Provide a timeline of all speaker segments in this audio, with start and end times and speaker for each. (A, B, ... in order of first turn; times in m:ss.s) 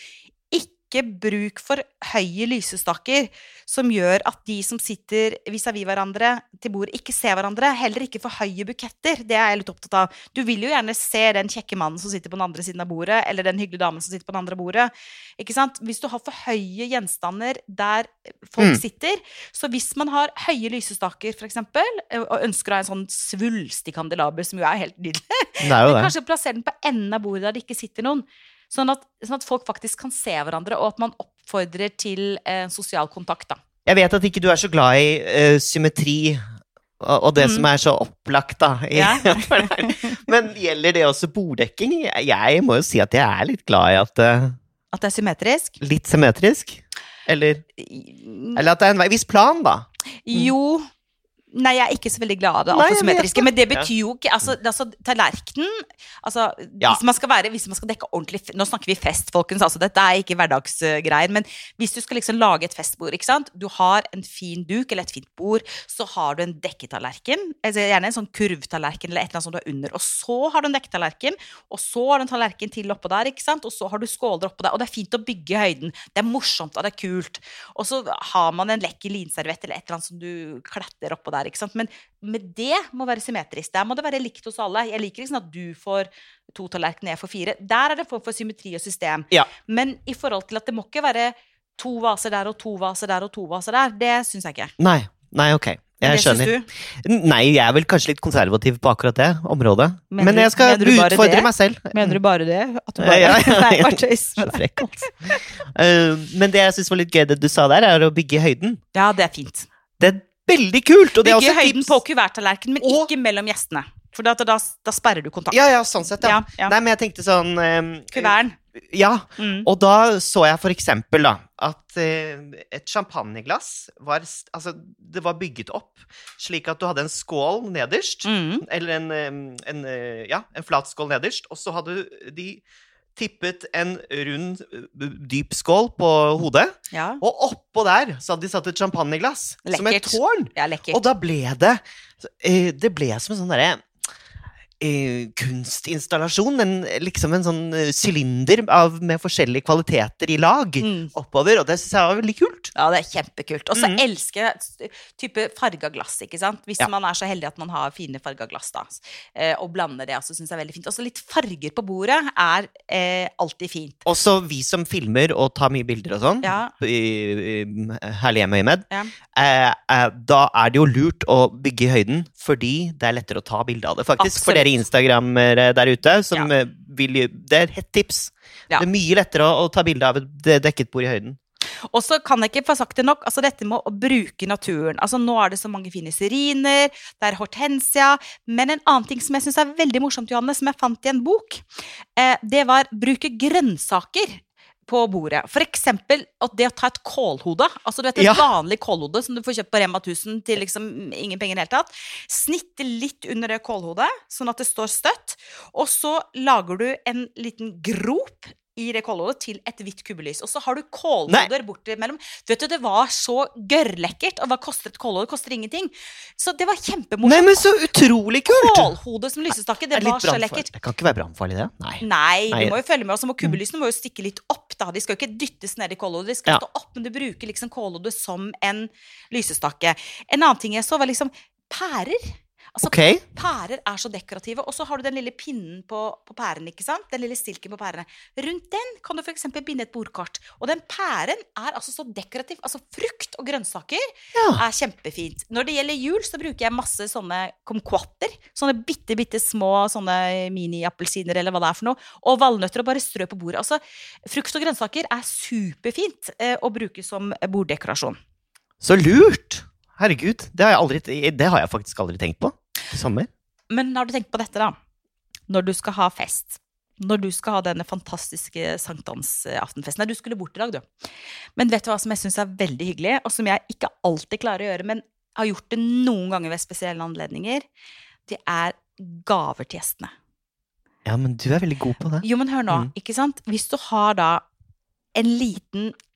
0:00.5-0:33.6 A
0:25.6-0:26.1 B
0:33.8-0:36.4 B
0:37.0-0:44.5 B
0:37.4-0:37.7 A
0:38.9-0:40.2 A
0:44.9-0:45.8 A
0:45.8-0:47.6 B
0:47.8-0:48.6 A
0:48.6-0:50.5 B
0:50.2-0:50.8 A
0:51.5-1:34.7 A
0:52.7-0:53.9 B
1:34.8-1:36.5 B
1:36.0-1:36.7 A
1:37.0-1:42.2 B
1:40.1-1:45.4 A
1:43.0-1:45.1 B
1:45.7-1:48.8 B
1:48.9-1:49.7 A
1:50.0-1:52.0 B
1:51.2-1:56.8 A
1:52.8-1:53.1 B
1:55.5-2:12.6 B
1:58.1-1:58.6 A
1:59.4-1:59.7 A
2:08.2-2:08.6 A
2:13.2-2:23.8 B
2:16.9-2:17.2 A
2:19.6-2:21.0 A
2:24.8-2:32.7 B
2:30.8-2:31.1 A
2:32.7-2:44.0 A
2:33.7-2:34.0 B
2:44.0-3:01.4 B
2:46.4-2:46.7 A
2:54.2-2:54.7 A
3:01.9-3:11.6 A
3:12.2-3:37.7 A
3:18.2-3:18.4 B
3:37.2-3:38.9 B
3:38.5-3:40.7 A
3:39.9-3:42.8 B
3:42.0-4:04.0 A
3:52.8-3:53.2 B
4:04.3-4:04.6 B
4:04.5-4:18.2 A
4:18.8-4:23.3 B
4:23.7-4:24.8 A
4:25.5-4:30.8 A
4:31.6-4:37.6 A
4:38.2-4:40.1 A
4:41.0-4:42.9 B
4:42.2-4:44.4 A
4:45.1-4:45.9 A